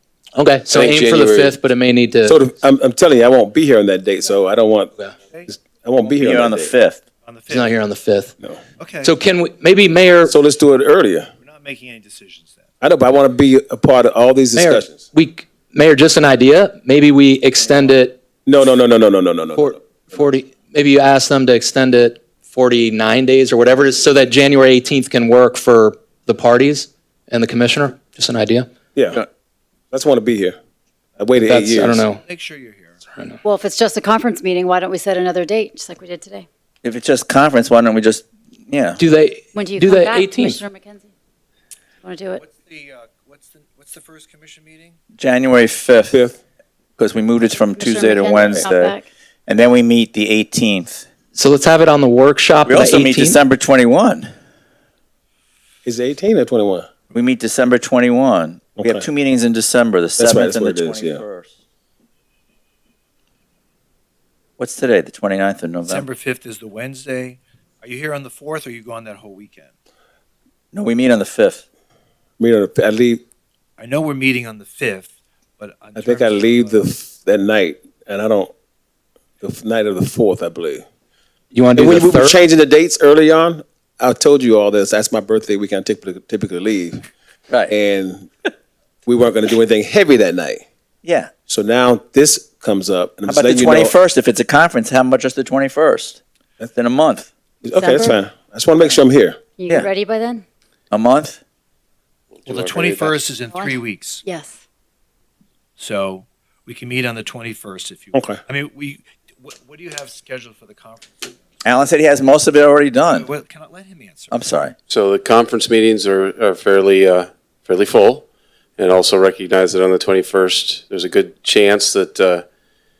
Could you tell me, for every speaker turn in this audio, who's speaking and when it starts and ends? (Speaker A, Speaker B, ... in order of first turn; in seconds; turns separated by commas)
Speaker A: 0.3-2.4, Speaker B: 0.7-1.5, Speaker C: 2.2-4.9, Speaker C: 5.5-6.7, Speaker D: 6.2-7.0, Speaker E: 7.2-7.8, Speaker A: 7.5-8.3, Speaker E: 8.8-9.1, Speaker A: 9.0-10.3, Speaker C: 10.3-11.3, Speaker E: 11.4-12.7, Speaker C: 12.8-15.1, Speaker A: 14.5-18.2, Speaker C: 18.4-20.0, Speaker A: 19.6-28.7, Speaker C: 28.9-29.2, Speaker C: 29.9-30.6, Speaker C: 31.2-32.0, Speaker A: 31.5-32.2, Speaker E: 32.0-33.0, Speaker F: 33.4-36.5, Speaker D: 36.8-39.0, Speaker A: 39.0-40.6, Speaker F: 39.5-41.1, Speaker F: 42.0-42.4, Speaker E: 42.4-45.0, Speaker D: 45.2-46.2, Speaker C: 46.1-46.4, Speaker D: 47.0-51.0, Speaker F: 47.8-49.0, Speaker A: 51.3-53.4, Speaker D: 52.7-54.3, Speaker C: 55.8-56.9, Speaker D: 57.1-61.6, Speaker C: 58.8-59.1, Speaker C: 60.2-61.2, Speaker D: 64.6-66.0, Speaker E: 65.8-69.7, Speaker D: 70.7-71.6, Speaker C: 72.4-73.2, Speaker E: 73.8-76.8, Speaker C: 76.0-78.5, Speaker C: 79.4-80.8, Speaker A: 81.5-82.4, Speaker C: 81.8-87.0, Speaker C: 87.7-88.3, Speaker C: 89.1-90.6, Speaker D: 91.0-91.3, Speaker C: 91.5-93.9, Speaker D: 93.3-97.3, Speaker C: 97.6-99.4, Speaker F: 97.7-98.2, Speaker F: 99.6-100.4, Speaker D: 100.9-101.4, Speaker B: 102.3-103.2, Speaker E: 102.5-104.2, Speaker F: 103.5-104.6, Speaker E: 105.8-111.5, Speaker C: 108.1-108.4, Speaker D: 111.6-113.3, Speaker E: 113.1-114.4, Speaker D: 114.3-114.8, Speaker B: 114.9-118.2, Speaker B: 118.8-122.4